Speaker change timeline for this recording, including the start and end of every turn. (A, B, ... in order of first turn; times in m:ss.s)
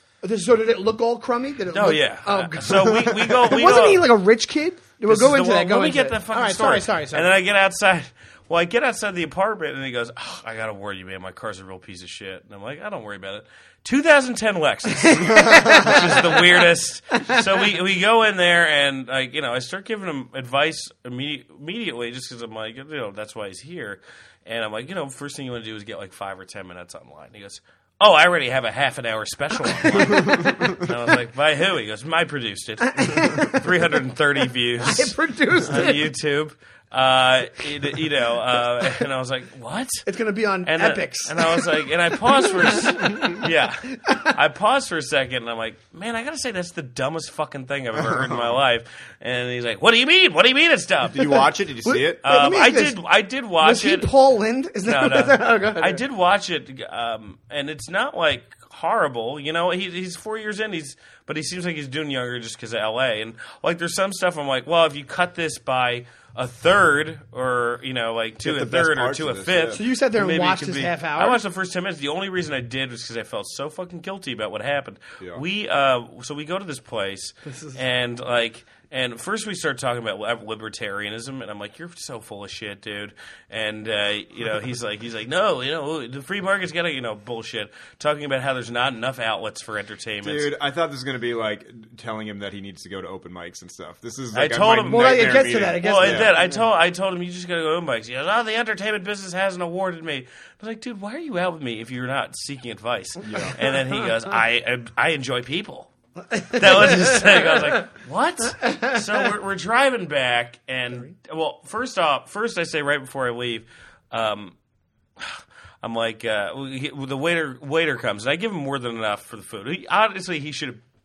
0:00.2-0:07.3 A
0:01.7-0:04.1 B
0:02.7-0:03.4 C
0:05.1-0:40.0 B
0:15.1-0:16.4 A
0:15.3-0:16.0 C
0:30.1-0:30.7 C
0:32.9-0:33.6 A
0:34.8-0:36.1 A
0:40.1-0:41.9 A
0:40.6-0:51.4 B
0:42.4-0:43.4 A
0:48.0-0:48.5 C
0:51.1-0:52.2 C
0:51.2-0:53.0 A
0:52.2-0:54.1 B
0:53.6-0:56.0 A
0:54.8-1:30.5 B
1:08.4-1:09.8 C
1:09.7-1:11.4 A
1:17.5-1:17.8 A
1:30.2-1:36.3 C
1:34.3-1:54.6 B
1:34.9-1:36.6 A
1:43.2-1:43.6 C
1:46.4-1:47.6 A
1:48.7-1:49.0 A
1:55.2-2:00.8 B